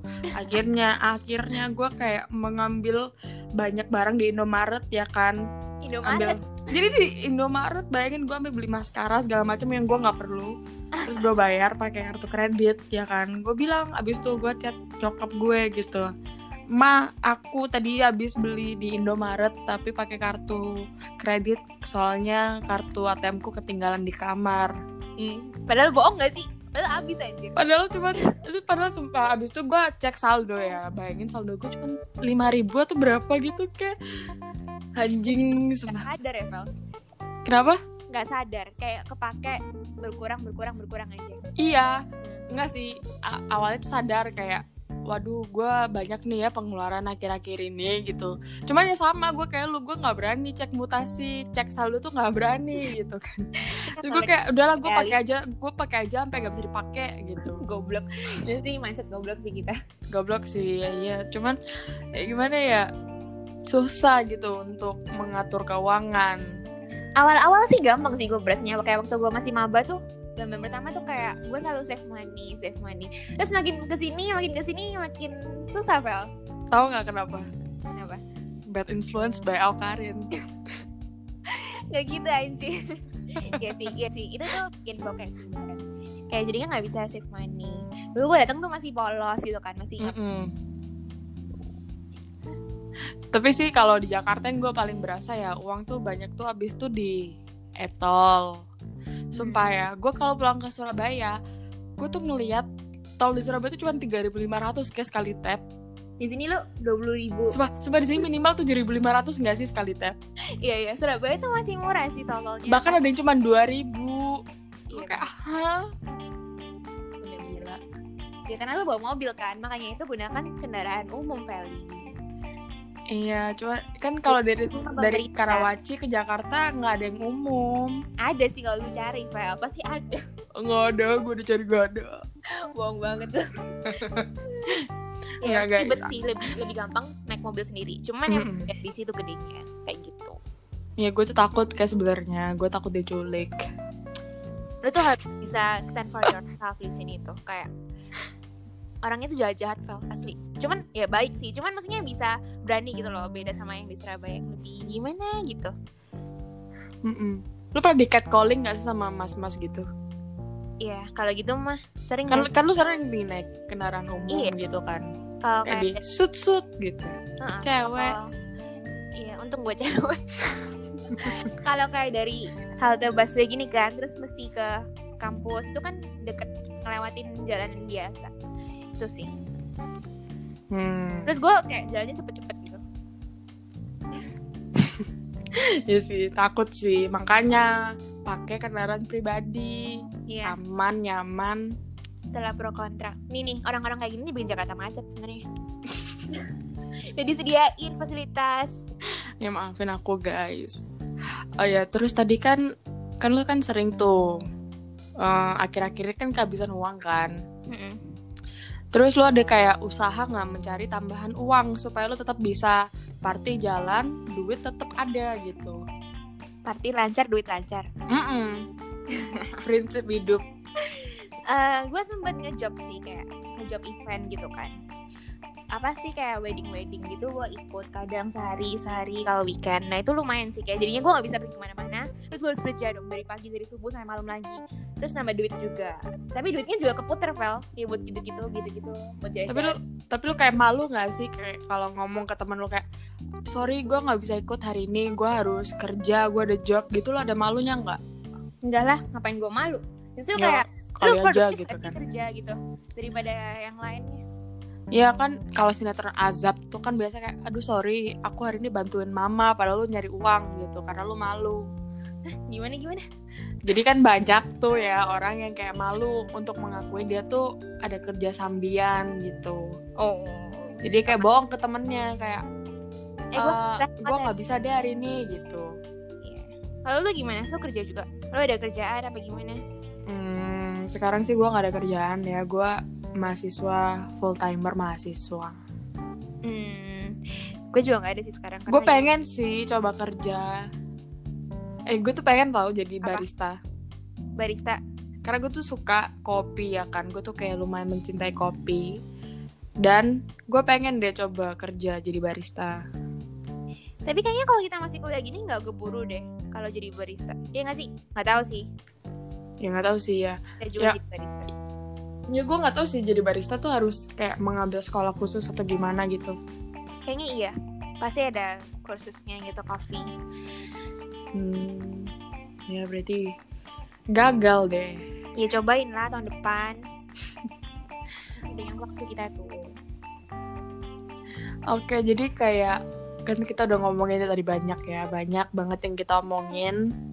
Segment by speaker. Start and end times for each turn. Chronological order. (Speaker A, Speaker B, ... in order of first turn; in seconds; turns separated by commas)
Speaker A: 0.3-5.4, Speaker B: 5.8-6.6, Speaker A: 6.0-10.6, Speaker B: 10.9-11.3, Speaker A: 11.1-16.1, Speaker A: 16.8-24.7, Speaker B: 25.2-27.6, Speaker A: 27.6-34.0, Speaker A: 35.0-36.0, Speaker B: 35.3-36.7, Speaker A: 37.5-37.8, Speaker B: 38.1-41.4, Speaker A: 41.6-57.6, Speaker B: 53.7-55.2, Speaker B: 57.6-59.8, Speaker A: 60.1-61.6, Speaker A: 62.2-62.9, Speaker A: 63.7-66.4, Speaker B: 67.2-76.3, Speaker A: 76.7-77.5, Speaker B: 77.9-78.2, Speaker A: 78.7-80.3, Speaker B: 81.5-90.2, Speaker A: 83.4-83.9, Speaker A: 90.0-90.5, Speaker A: 93.3-98.7, Speaker A: 99.3-101.4, Speaker B: 99.4-99.7, Speaker A: 102.0-102.7, Speaker A: 103.2-105.6, Speaker B: 106.2-107.6, Speaker A: 107.5-110.2, Speaker B: 110.6-113.0, Speaker A: 112.7-115.9, Speaker B: 114.9-115.3, Speaker B: 117.2-117.7, Speaker A: 117.4-117.8, Speaker B: 118.5-122.1, Speaker A: 123.1-128.0, Speaker B: 124.3-125.7, Speaker B: 128.2-130.2, Speaker A: 130.6-132.2, Speaker B: 132.7-134.7, Speaker A: 133.9-134.9, Speaker B: 135.4-140.4, Speaker A: 135.4-136.1, Speaker A: 138.3-138.7, Speaker A: 141.0-143.6, Speaker B: 144.8-147.7, Speaker B: 149.0-155.7, Speaker A: 157.1-159.9, Speaker B: 160.8-162.5, Speaker A: 162.3-165.1, Speaker B: 165.4-166.0, Speaker A: 165.7-168.2, Speaker B: 167.4-168.3, Speaker B: 169.2-170.2, Speaker A: 171.1-171.4, Speaker B: 171.1-178.3, Speaker B: 179.0-179.3, Speaker A: 180.7-181.3, Speaker B: 181.3-182.8, Speaker A: 184.8-185.0, Speaker A: 185.6-191.6, Speaker B: 190.3-190.6, Speaker B: 192.3-195.4, Speaker B: 197.2-198.8, Speaker A: 199.4-200.9, Speaker A: 201.6-202.6, Speaker A: 203.2-204.4, Speaker A: 205.2-207.3, Speaker B: 207.7-208.0, Speaker A: 208.9-215.8, Speaker B: 216.7-217.9, Speaker A: 218.1-218.7, Speaker B: 219.1-219.6, Speaker A: 219.6-220.4, Speaker B: 220.9-224.7, Speaker B: 225.7-239.8, Speaker A: 239.5-242.8, Speaker A: 243.5-248.0, Speaker B: 248.7-254.2, Speaker A: 250.4-252.0, Speaker A: 254.9-261.7, Speaker B: 262.3-263.0, Speaker A: 263.7-269.6, Speaker B: 270.0-271.3, Speaker A: 270.8-272.4, Speaker B: 273.3-274.3, Speaker A: 273.4-275.8, Speaker B: 276.2-279.6, Speaker A: 280.1-285.6, Speaker B: 286.4-287.2, Speaker B: 287.7-289.1, Speaker A: 288.7-290.6, Speaker A: 291.9-293.6, Speaker B: 294.4-294.8, Speaker A: 295.2-298.9, Speaker A: 299.8-302.8, Speaker B: 304.1-308.7, Speaker A: 309.6-311.0, Speaker B: 310.6-311.5, Speaker A: 312.3-316.4, Speaker B: 317.1-320.1, Speaker A: 321.4-322.1, Speaker A: 322.7-323.4, Speaker A: 324.1-325.0, Speaker B: 325.4-326.8, Speaker B: 328.4-329.7, Speaker A: 331.7-336.8